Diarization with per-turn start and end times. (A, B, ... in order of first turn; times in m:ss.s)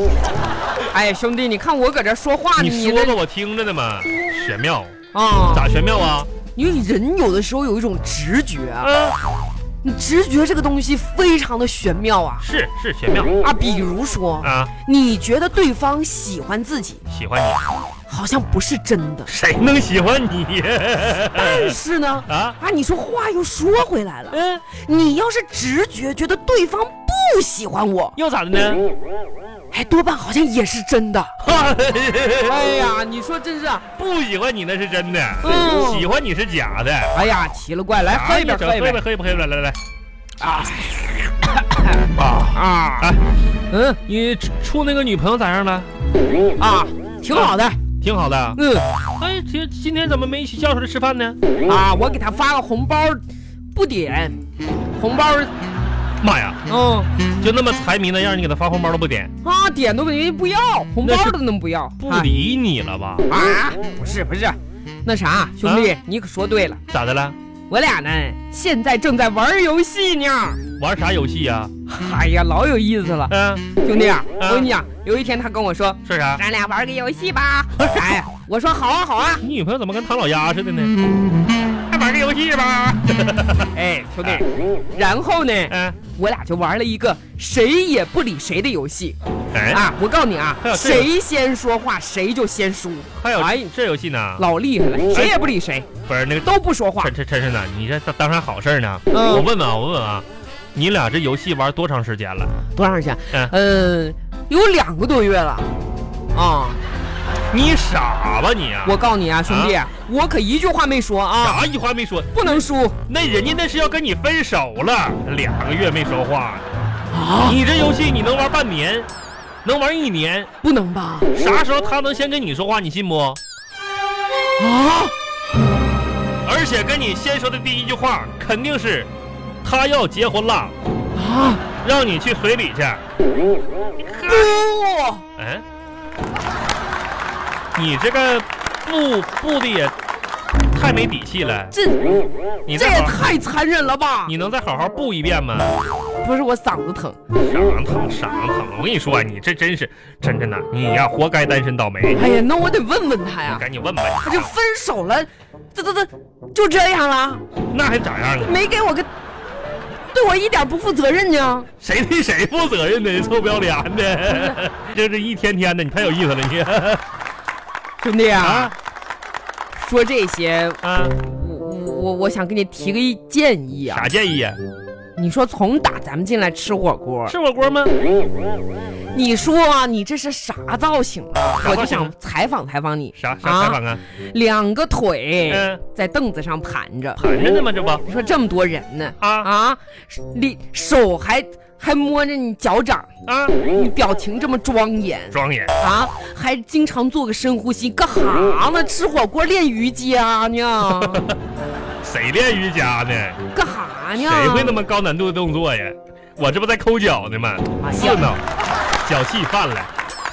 0:00.9-0:03.2 A
0:02.6-0:05.0 B
0:05.1-0:05.7 A
0:05.5-0:06.3 B
0:06.5-0:08.9 A
0:08.8-0:09.2 B
0:09.8-0:12.5 A
0:12.4-0:13.4 B
0:13.4-0:17.0 A
0:14.4-0:14.7 B
0:17.1-0:17.6 B
0:18.1-0:19.3 A
0:19.3-0:22.6 B
0:21.3-0:28.2 A
0:24.3-0:24.6 B
0:28.2-0:28.8 B
0:29.7-0:31.4 A
0:31.4-0:32.6 B
0:32.4-0:33.8 A
0:34.0-0:37.2 B
0:35.4-0:36.1 A
0:37.1-0:39.0 A
0:38.0-0:39.8 B
0:40.4-0:43.2 A
0:42.1-0:43.3 B
0:43.7-0:44.0 A
0:44.0-0:45.9 B
0:46.6-0:47.8 A
0:47.3-0:48.6 B
0:48.6-0:48.9 A
0:49.2-0:51.4 B
0:51.6-0:53.2 A
0:53.8-0:54.4 A
0:55.0-0:55.5 A
0:56.2-0:56.6 B
0:56.7-0:57.1 A
0:57.4-0:59.3 B
0:59.4-1:02.3 A
1:01.0-1:01.4 B
1:02.0-1:03.4 B
1:03.3-1:06.8 A
1:05.6-1:05.9 B
1:06.9-1:07.4 B
1:07.7-1:10.6 A
1:10.8-1:11.7 B
1:11.9-1:19.4 A
1:13.3-1:13.7 B
1:14.4-1:14.7 B
1:16.0-1:16.4 B
1:17.8-1:18.2 B
1:19.4-1:20.9 B
1:21.9-1:24.4 B
1:23.7-1:29.2 A
1:25.7-1:26.0 B
1:29.5-1:29.9 B
1:29.7-1:33.7 A
1:30.6-1:31.1 B
1:33.2-1:34.4 B
1:34.4-1:35.9 A
1:35.1-1:35.5 B
1:36.0-1:42.5 B
1:36.4-1:37.1 A
1:39.1-1:39.4 A
1:42.8-1:45.7 A
1:46.3-1:46.8 A
1:47.5-1:49.8 B
1:48.8-1:51.6 A
1:51.4-1:56.6 B
1:52.3-1:53.0 A
1:57.1-1:57.6 A
1:57.4-1:59.1 B
1:59.6-2:00.5 B
2:00.6-2:01.3 A
2:01.3-2:03.4 B
2:04.6-2:05.1 A
2:06.4-2:09.1 B
2:09.6-2:10.8 B
2:11.1-2:11.6 A
2:11.8-2:13.0 B
2:14.0-2:14.6 B
2:14.2-2:15.2 A
2:15.4-2:15.6 B
2:17.8-2:19.9 B
2:20.7-2:21.8 B
2:21.7-2:24.3 A
2:22.7-2:23.3 B
2:24.2-2:25.8 B
2:26.2-2:27.2 A
2:27.4-2:32.3 B
2:32.1-2:33.6 A
2:33.5-2:34.5 B
2:34.2-2:37.4 A
2:37.7-2:38.6 B
2:38.4-2:39.1 A
2:40.1-2:41.7 A
2:41.8-2:47.0 B
2:48.0-2:48.8 A
2:48.4-2:48.8 B
2:49.7-2:54.1 A
2:50.8-2:51.2 B
2:53.9-2:54.6 B
2:55.2-2:57.4 A
2:57.3-2:57.9 B
2:59.1-3:03.8 A
3:01.6-3:02.1 B
3:03.2-3:04.0 B
3:04.3-3:07.2 A
3:05.5-3:05.8 B
3:07.2-3:08.0 B
3:08.0-3:13.1 A
3:09.2-3:09.5 B
3:13.2-3:13.6 B
3:13.7-3:21.2 A
3:15.3-3:15.8 B
3:20.8-3:21.4 B
3:22.0-3:23.4 B
3:23.5-3:24.8 A
3:24.1-3:28.4 B
3:27.8-3:28.4 A
3:29.0-3:29.9 B